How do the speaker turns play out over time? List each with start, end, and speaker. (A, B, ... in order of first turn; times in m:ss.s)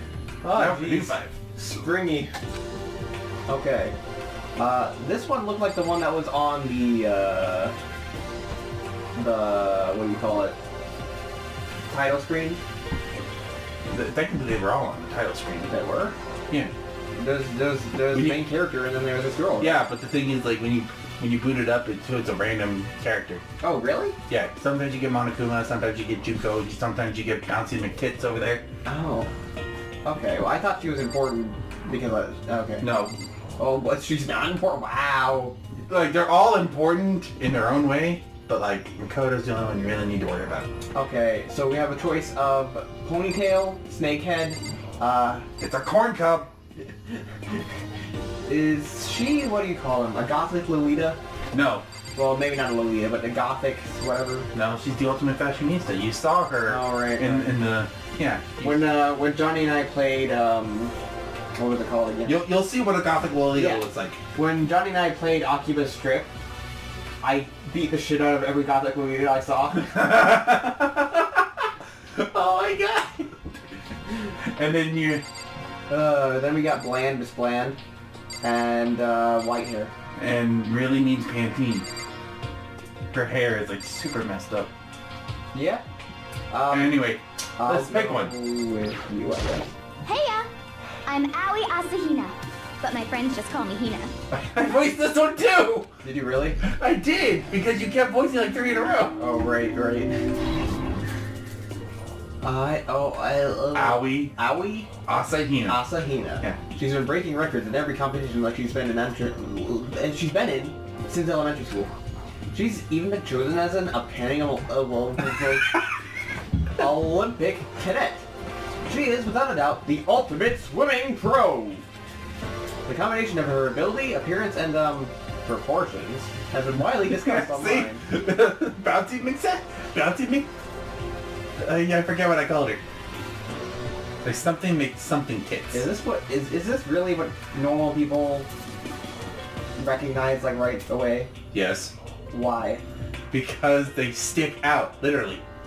0:00.4-0:02.3 A
0:00.5-0:01.4 B
0:03.5-0:04.0 A
0:04.6-0:07.8 A
0:09.2-0:10.6 A
0:11.9-0:12.6 A
0:13.9-0:15.7 B
0:15.7-0:16.2 A
0:17.2-0:19.8 A
0:18.1-0:18.4 B
0:19.6-0:23.4 B
0:23.6-0:24.2 A
0:24.3-0:28.6 B
0:28.8-0:29.3 A
0:30.0-0:32.9 A
0:32.8-0:33.2 B
0:33.6-0:35.6 A
0:35.9-0:40.7 B
0:40.9-0:45.5 A
0:45.6-0:46.5 B
0:47.1-0:47.6 A
0:48.5-0:51.2 A
0:51.5-0:51.8 B
0:52.2-0:54.5 A
0:54.5-0:58.8 B
0:56.7-0:57.6 A
0:58.6-1:00.9 A
1:01.6-1:02.4 A
1:02.2-1:04.2 B
1:03.5-1:06.3 A
1:07.2-1:10.1 A
1:09.9-1:13.5 B
1:14.4-1:15.2 B
1:15.9-1:17.8 A
1:18.4-1:19.9 A
1:20.2-1:21.9 B
1:23.1-1:24.7 B
1:25.5-1:25.8 A
1:26.5-1:27.0 A
1:26.7-1:28.3 B
1:27.6-1:29.7 A
1:30.0-1:30.5 C
1:31.1-1:34.1 C
1:34.3-1:35.9 B
1:36.0-1:36.6 A
1:36.6-1:39.2 B
1:39.2-1:40.1 A
1:42.4-1:44.9 A
1:43.7-1:44.3 B
1:45.0-1:45.8 B
1:45.7-1:51.9 A
1:52.5-1:55.8 A
1:56.8-1:58.2 A
1:58.9-2:01.8 A
2:02.9-2:08.0 A
2:06.8-2:10.5 B
2:11.6-2:12.8 B
2:14.2-2:15.9 B
2:15.7-2:18.5 A
2:19.8-2:21.3 A
2:21.5-2:21.9 B
2:22.3-2:22.8 A
2:23.3-2:25.4 B